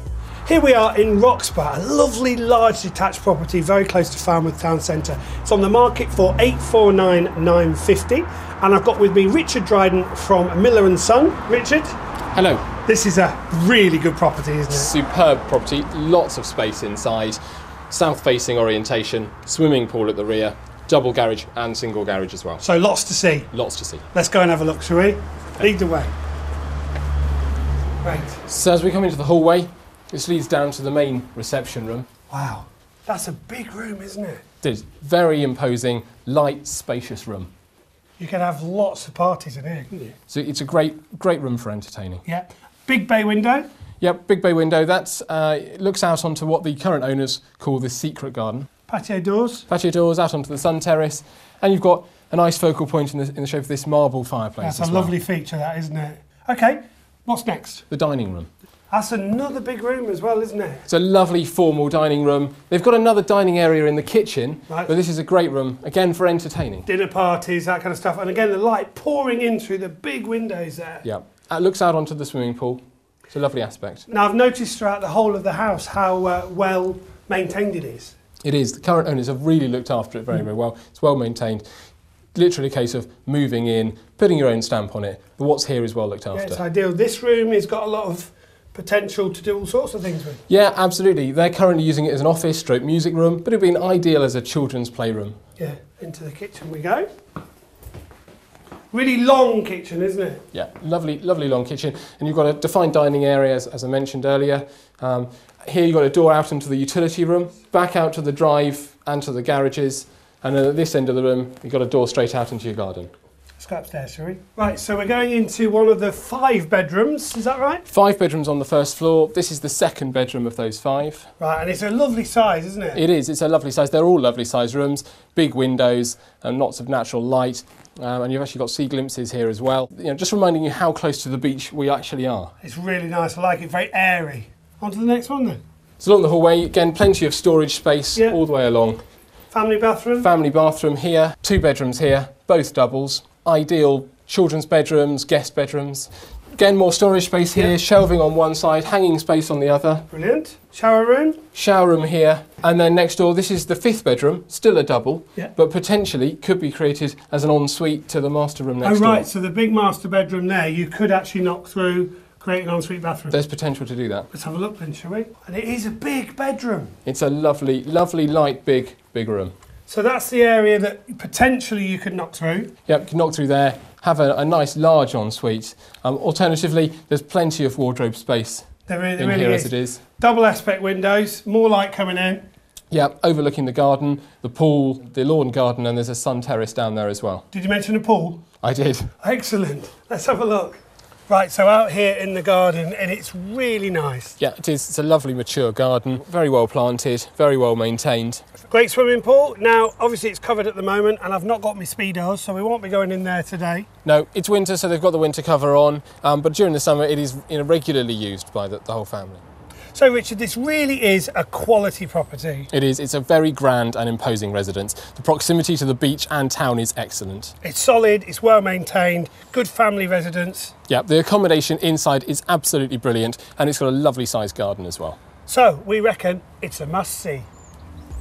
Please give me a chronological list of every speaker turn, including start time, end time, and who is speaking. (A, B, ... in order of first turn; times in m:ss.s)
0:00.5-0:12.0 A
0:12.3-0:12.7 B
0:12.8-0:14.9 A
0:14.7-0:17.4 B
0:17.9-0:22.6 B
0:22.6-0:23.5 A
0:23.5-0:24.0 B
0:24.1-0:26.1 A
0:28.0-0:28.4 A
0:28.5-0:32.1 B
0:32.3-0:34.4 A
0:34.6-0:37.5 B
0:38.2-0:40.2 A
0:40.3-0:42.2 B
0:42.2-0:43.7 A
0:44.0-0:48.7 B
0:48.9-0:49.7 A
0:49.7-0:55.2 B
0:54.6-0:57.8 A
0:57.9-0:58.5 B
0:58.9-1:00.9 A
1:00.9-1:06.9 B
1:06.9-1:11.1 A
1:11.0-1:14.0 B
1:14.1-1:18.2 A
1:18.4-1:21.6 B
1:22.3-1:26.6 B
1:26.3-1:30.4 A
1:30.5-1:35.4 B
1:35.6-1:37.1 A
1:38.9-1:40.4 A
1:40.5-1:53.1 B
1:53.6-1:57.9 A
1:57.9-2:01.3 B
2:01.4-2:03.0 A
2:02.9-2:12.5 B
2:12.6-2:15.6 A
2:16.0-2:19.0 B
2:19.5-2:20.3 A
2:20.2-2:30.1 B
2:30.1-2:31.4 A
2:31.5-2:39.3 B
2:38.8-2:43.4 A
2:43.3-2:44.3 B
2:44.3-2:47.0 A
2:47.0-2:49.5 B
2:49.9-2:52.7 A
2:52.9-3:00.0 B
2:58.9-3:02.4 A
3:02.9-3:07.4 B
3:07.5-3:08.4 A
3:08.6-3:09.1 B
3:09.2-3:14.4 A
3:14.4-3:18.4 B
3:18.7-3:23.9 A
3:24.0-3:29.4 B
3:29.9-3:32.7 A
3:32.7-3:37.5 B
3:37.6-3:40.7 A
3:40.9-3:45.2 B
3:45.5-3:47.5 A